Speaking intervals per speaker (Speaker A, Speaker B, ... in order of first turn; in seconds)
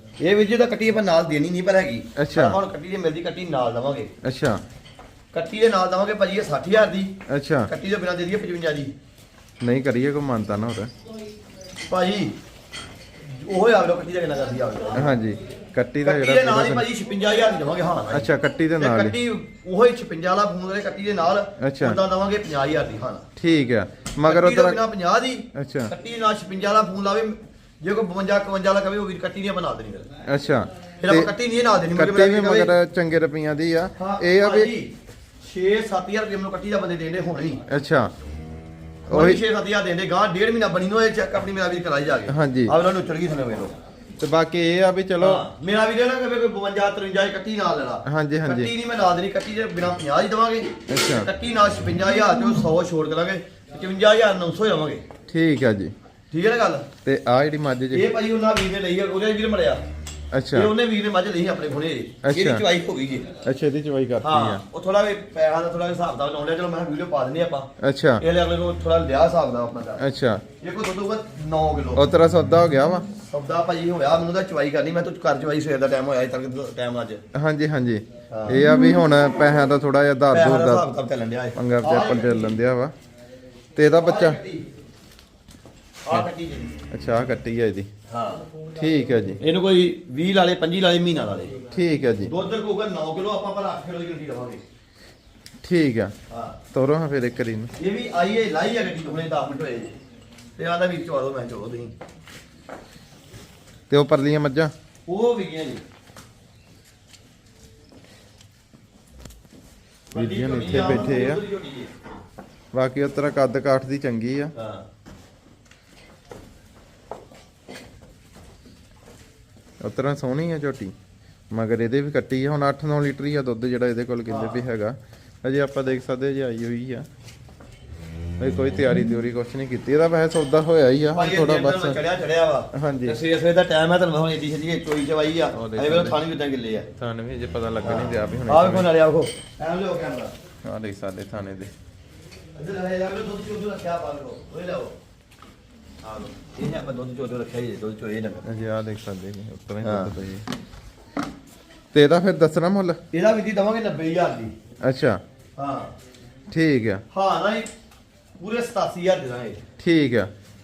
Speaker A: 0.2-4.1, 5.3-7.2, 7.7-8.9, 11.9-12.4, 13.2-15.2, 16.0-23.3, 24.2-30.1, 31.0-32.7, 34.0-37.6, 39.1-43.7, 45.2-55.0, 56.3-56.9, 57.9-59.8, 60.5-63.3, 64.2-70.0, 70.6-72.1, 73.2-77.2, 78.3-78.6, 80.3-82.6, 83.9-84.7, 86.0-86.8, 88.1-88.4, 89.4-91.6, 92.2-94.6, 96.3-96.6, 97.8-99.9, 100.6-101.9, 105.1-105.8, 110.1-111.9, 114.5-114.9, 124.3-124.7, 131.1-136.9, 137.8-140.3, 142.6-144.9, 146.0-148.5, 149.8-150.1, 153.1-154.5, 155.6-155.9, 157.1-157.7, 158.4-159.6
Speaker B: 2.2-2.6, 4.2-4.6, 7.3-7.7, 9.6-10.9, 14.9-16.9, 18.1-19.2, 21.6-22.0, 23.4-24.8, 25.6-25.9, 30.2-31.3, 31.9-34.7, 37.7-38.1, 39.1-39.4, 42.3-42.7, 44.2-45.5, 48.0-48.7, 50.9-51.3, 55.3-55.9, 57.0-58.1, 60.3-60.7, 62.2-62.6, 63.4-64.6, 67.8-68.2, 70.0-70.4, 72.0-73.1, 77.3-80.9, 81.6-82.9, 83.8-84.4, 86.9-87.9, 88.7-89.4, 91.7-92.3, 95.6-96.1, 96.7-97.7, 103.9-104.7, 110.2-111.4, 112.7-114.5, 119.8-120.9, 121.5-127.1, 128.4-132.0, 132.7-133.2, 135.5-136.2, 137.0-138.9, 140.6-141.7, 148.4-150.5, 151.9-153.0, 154.8-155.2, 156.5-157.0, 159.8-160.3